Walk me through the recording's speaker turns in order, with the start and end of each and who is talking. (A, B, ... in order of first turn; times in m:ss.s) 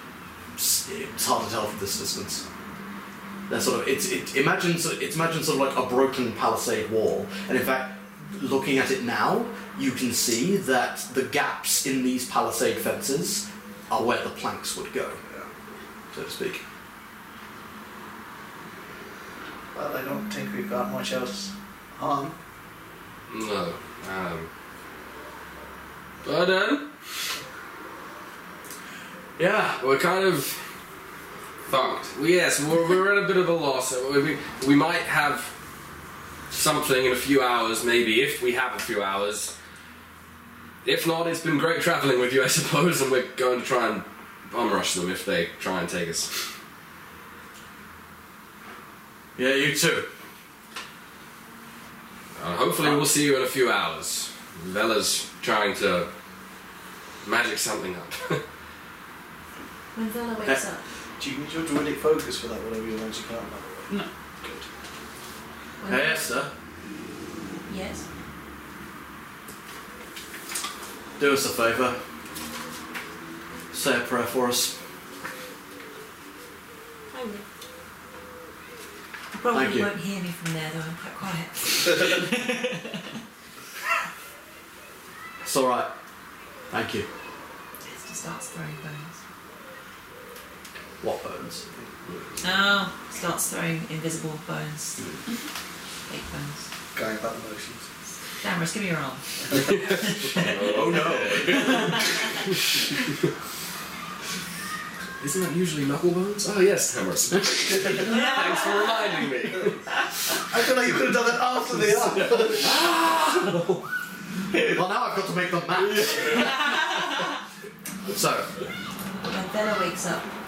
0:00.6-0:02.4 A
0:03.5-0:15.2 A
0:16.1-0:16.6 A
0:19.7-0:22.3 B
0:23.3-0:24.5 C
0:26.2-0:27.0 C
0:29.4-0:29.8 A
0:29.7-0:30.6 C
0:31.7-0:35.5 C
0:36.5-0:39.5 C
0:40.8-0:46.4 C
0:49.4-0:50.1 A
0:52.4-0:56.1 C
0:57.2-0:58.4 C
0:59.9-1:00.8 D
1:01.2-1:04.6 B
1:05.8-1:06.2 D
1:05.8-1:06.5 A
1:07.7-1:08.0 D
1:11.2-1:12.0 A
1:13.7-1:14.7 A
1:17.1-1:17.4 D
1:19.3-1:22.9 D
1:19.5-1:19.9 A
1:25.4-1:25.9 A
1:26.7-1:27.1 A
1:27.8-1:29.2 D
1:31.0-1:31.6 A
1:32.1-1:32.3 C
1:32.4-1:35.0 D
1:36.1-1:36.7 D
1:36.9-1:37.8 B
1:38.4-1:39.2 D
1:39.5-1:42.5 C
1:40.1-1:40.5 D
1:40.6-1:42.1 A
1:45.2-1:49.8 C
1:50.5-1:52.7 B
1:52.1-1:53.8 C
1:54.6-1:56.6 A
1:55.9-1:56.5 C
1:58.1-1:58.5 A
1:59.2-2:00.3 D